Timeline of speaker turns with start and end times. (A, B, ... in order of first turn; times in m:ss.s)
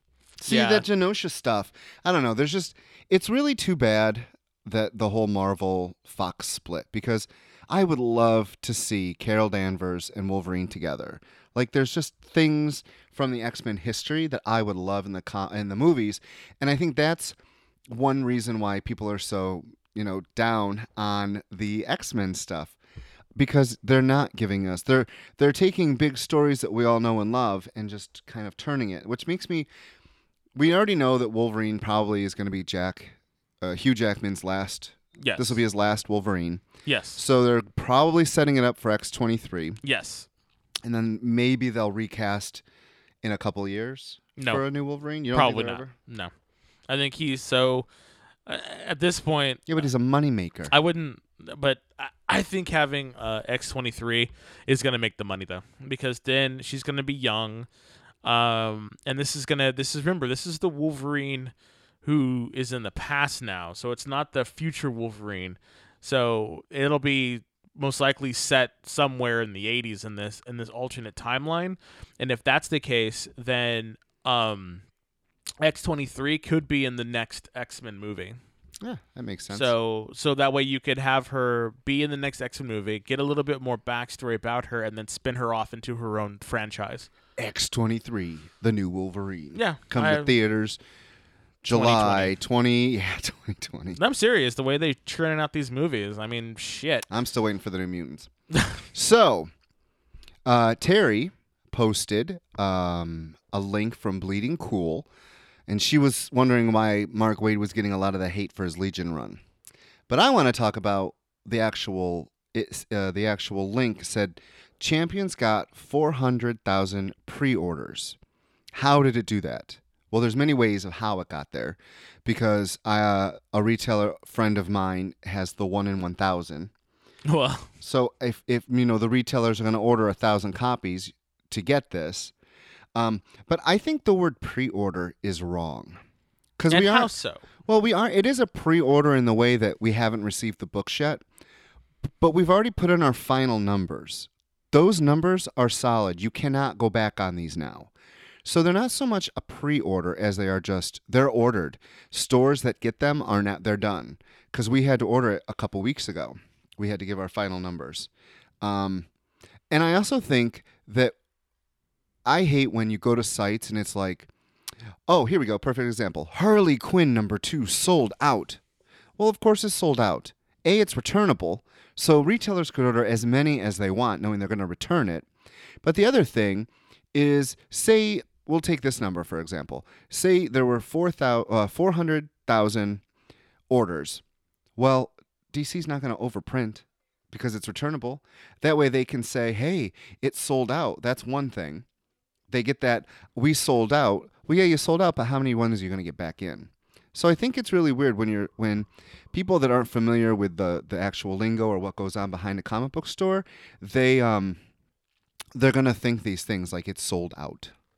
0:00.4-0:17.4 A
0:00.4-0:00.8 B
0:17.9-0:22.8 A
0:23.4-0:29.7 A
0:30.5-0:36.6 A
0:35.2-0:35.6 B
0:36.8-0:37.2 B
0:37.2-0:39.8 A
0:39.8-0:40.3 B
0:40.8-0:42.6 A
0:43.2-0:45.9 A
0:44.4-0:44.6 B
0:45.3-0:46.3 B
0:46.9-0:47.9 B
0:48.4-0:49.7 B
0:49.7-0:50.7 A
0:50.7-0:57.7 B
0:58.2-1:14.8 B
1:15.6-1:18.4 B
1:18.8-1:19.7 A
1:19.5-1:27.1 B
1:27.4-1:30.8 A
1:29.5-1:30.3 B
1:31.6-1:34.0 A
1:31.7-1:32.3 B
1:34.0-1:37.1 B
1:37.1-1:38.3 A
1:38.5-1:38.8 B
1:38.9-1:39.5 A
1:40.4-1:45.1 A
1:45.7-1:49.4 A
1:50.1-1:58.2 A
1:58.7-2:06.7 A
2:07.3-2:07.7 B
2:07.8-2:12.3 A
2:12.9-2:16.0 A
2:16.6-2:17.1 A
2:16.7-2:17.4 B
2:17.6-2:21.2 A
2:22.2-2:27.9 A
2:28.4-2:38.1 A
2:38.6-2:39.1 A
2:39.7-2:41.1 A
2:42.2-2:44.3 A
2:45.1-2:48.6 A
2:49.2-2:55.2 A
2:55.8-3:03.0 A
3:03.7-3:04.2 A
3:04.8-3:11.8 A
3:12.5-3:24.6 A
3:25.5-3:27.7 A